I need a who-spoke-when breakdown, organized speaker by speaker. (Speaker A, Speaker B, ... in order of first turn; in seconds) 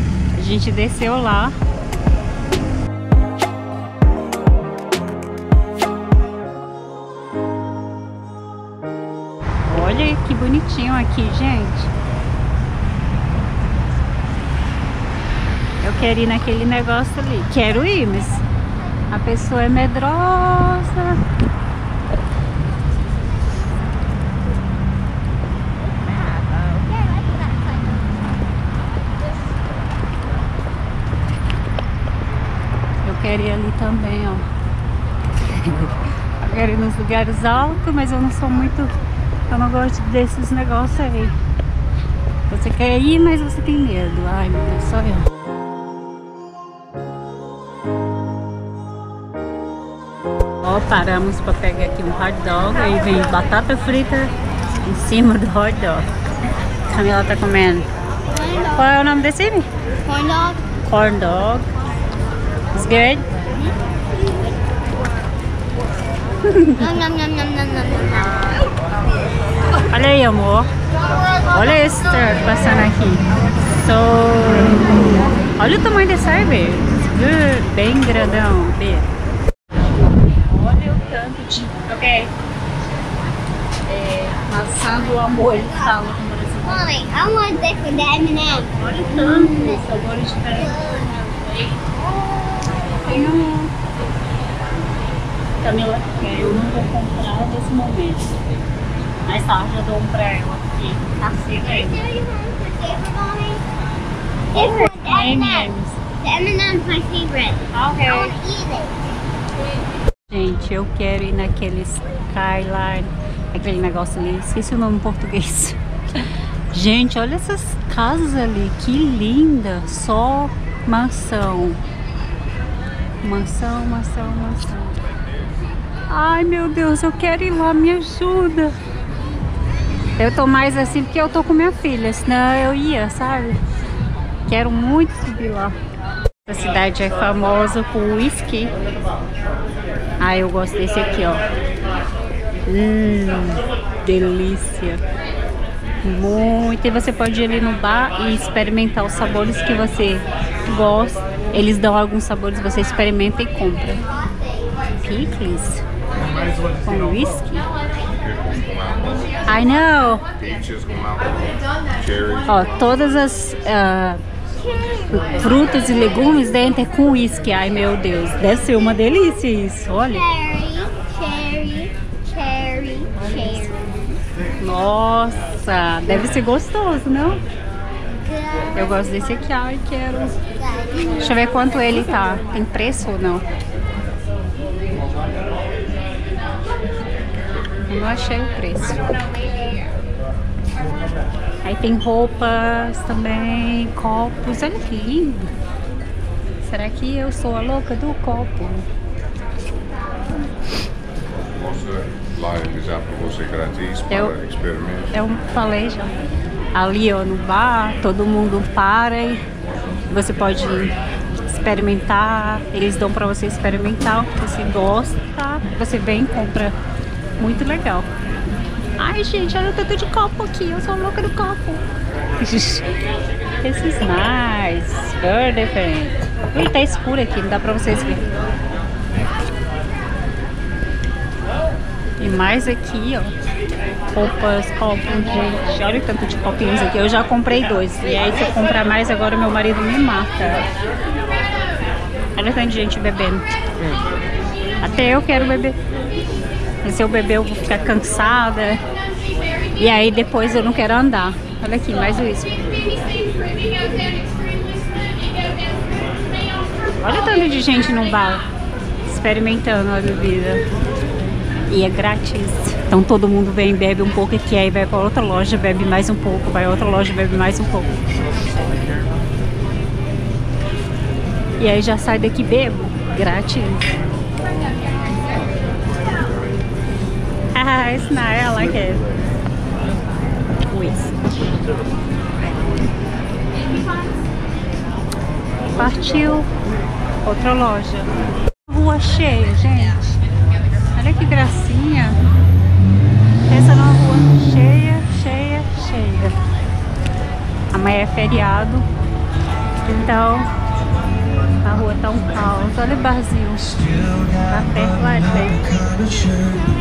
Speaker A: 0.3-1.6, 9.7-11.9, 15.8-18.4, 19.1-21.2, 33.0-34.5, 35.5-39.0, 39.5-41.4, 42.5-45.3, 50.6-56.1, 56.9-57.9, 58.7-59.7, 60.8-61.7, 62.7-63.3, 66.4-66.9, 69.9-70.7, 71.5-75.0, 75.6-79.1, 80.2-82.3, 83.9-86.9, 88.8-90.8, 92.9-93.7, 95.6-98.3, 99.2-102.1, 104.5-106.0, 107.7-108.3, 110.3-121.8, 123.2-125.0, 126.1-128.8, 130.2-133.6, 134.5-135.8, 136.4-138.7, 140.2-141.4, 142.7-145.0, 146.0-154.0, 155.0-155.8, 156.8-157.7, 159.4-160.2, 162.4-164.2, 165.1-170.2, 173.1-173.7, 174.6-177.4, 178.7-180.3, 181.2-183.4, 187.8-189.1, 191.6-195.5, 196.6-198.9, 204.1-204.3, 205.1-206.1, 206.7-209.4, 210.1-210.9, 211.4-216.8, 217.4-218.1, 219.0-221.8, 222.4-222.9, 223.6-228.3, 232.2-233.3, 234.1-240.7, 242.3-244.0, 244.8-245.8, 246.8-248.8, 249.8-252.7, 257.0-258.4, 259.1-260.6, 261.7-267.9, 271.6-273.9, 277.5-279.0, 280.7-281.1, 285.7-286.5, 287.2-288.1, 288.7-290.0, 290.9-292.2, 293.5-296.4, 297.7-298.9, 299.9-300.5, 301.6-305.8
Speaker B: 26.2-27.5, 58.3-58.9, 60.0-60.6, 66.8-68.7, 86.6-89.8, 101.6-103.6, 104.5-109.0, 170.1-174.0, 178.2-178.8, 180.6-181.2
Speaker C: 158.2-159.4, 160.4-162.5, 201.4-205.1